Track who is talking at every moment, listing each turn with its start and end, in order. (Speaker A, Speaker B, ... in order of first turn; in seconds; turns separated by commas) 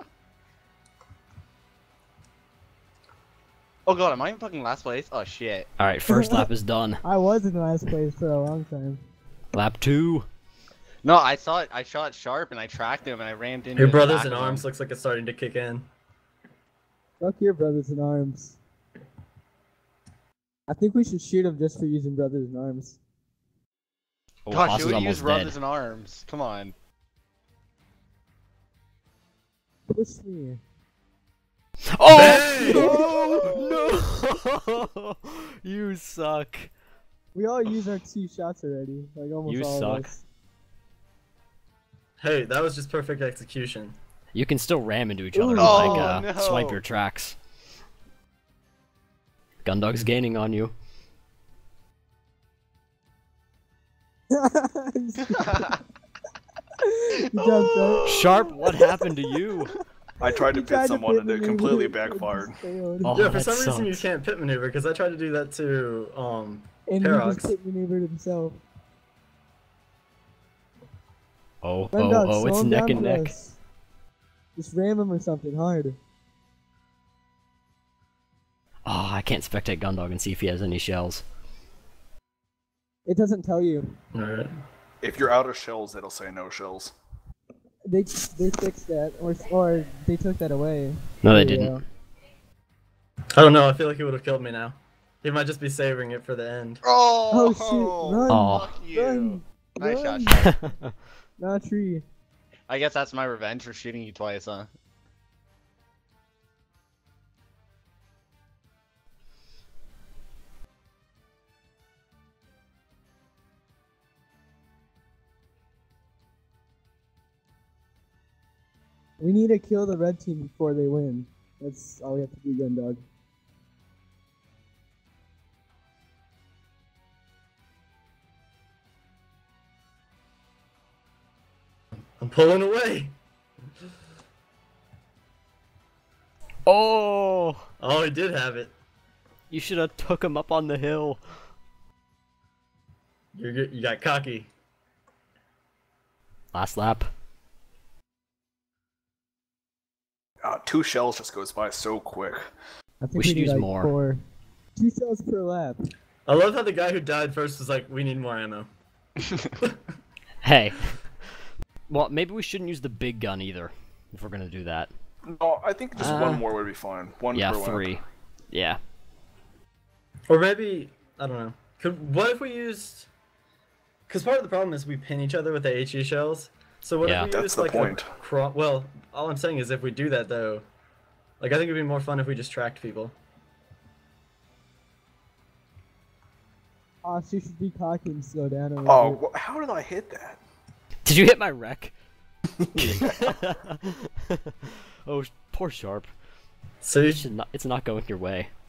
Speaker A: 3.9-5.7, Speaker B: 5.8-7.0, Speaker C: 6.1-6.5, Speaker C: 7.0-9.0, Speaker B: 9.5-10.2, Speaker A: 11.0-14.7, Speaker D: 13.8-15.9, Speaker C: 17.2-18.6, Speaker C: 20.7-23.0, Speaker B: 24.5-25.6, Speaker A: 24.5-26.7, Speaker C: 29.9-30.6, Speaker B: 31.9-36.7, Speaker D: 32.1-32.9, Speaker C: 32.6-33.3, Speaker A: 32.8-33.7, Speaker C: 37.3-40.2, Speaker B: 39.5-40.1, Speaker D: 42.2-44.0, Speaker B: 44.3-47.4, Speaker C: 45.4-46.1, Speaker A: 45.5-46.8, Speaker B: 49.6-50.7, Speaker C: 54.3-55.8, Speaker A: 55.4-55.7, Speaker C: 56.8-58.1, Speaker A: 57.3-58.4, Speaker B: 58.1-59.7, Speaker E: 60.2-62.6, Speaker C: 60.3-63.1, Speaker B: 63.0-64.0, Speaker D: 63.1-67.5, Speaker C: 66.8-68.6, Speaker B: 71.6-73.3, Speaker C: 71.9-73.6, Speaker C: 74.6-76.0, Speaker B: 78.9-81.2, Speaker C: 83.1-84.0, Speaker D: 84.1-84.5, Speaker E: 85.0-86.9, Speaker C: 87.8-91.8, Speaker B: 91.2-91.8, Speaker D: 93.4-96.8, Speaker A: 96.8-100.5, Speaker C: 97.3-100.4, Speaker B: 98.3-98.7, Speaker B: 100.4-100.9, Speaker C: 101.4-102.0, Speaker A: 102.7-104.7, Speaker C: 119.2-123.0, Speaker D: 132.2-133.1, Speaker B: 136.7-137.6, Speaker D: 137.8-138.7, Speaker B: 139.5-141.2, Speaker D: 143.3-144.5, Speaker B: 146.5-147.1, Speaker E: 150.4-152.5, Speaker C: 153.0-154.2, Speaker B: 153.2-153.9, Speaker C: 154.8-155.9, Speaker D: 156.3-158.7, Speaker B: 160.4-161.0, Speaker B: 161.9-164.9, Speaker E: 165.3-168.0, Speaker B: 166.0-166.5, Speaker B: 167.3-168.8, Speaker D: 170.3-173.1, Speaker D: 174.1-180.7, Speaker B: 177.0-177.3, Speaker E: 177.3-178.1, Speaker D: 181.4-183.1, Speaker C: 187.0-189.3, Speaker E: 188.8-190.4, Speaker B: 191.1-191.9, Speaker E: 192.8-193.0, Speaker B: 192.8-196.1, Speaker D: 196.8-197.3, Speaker B: 197.1-198.5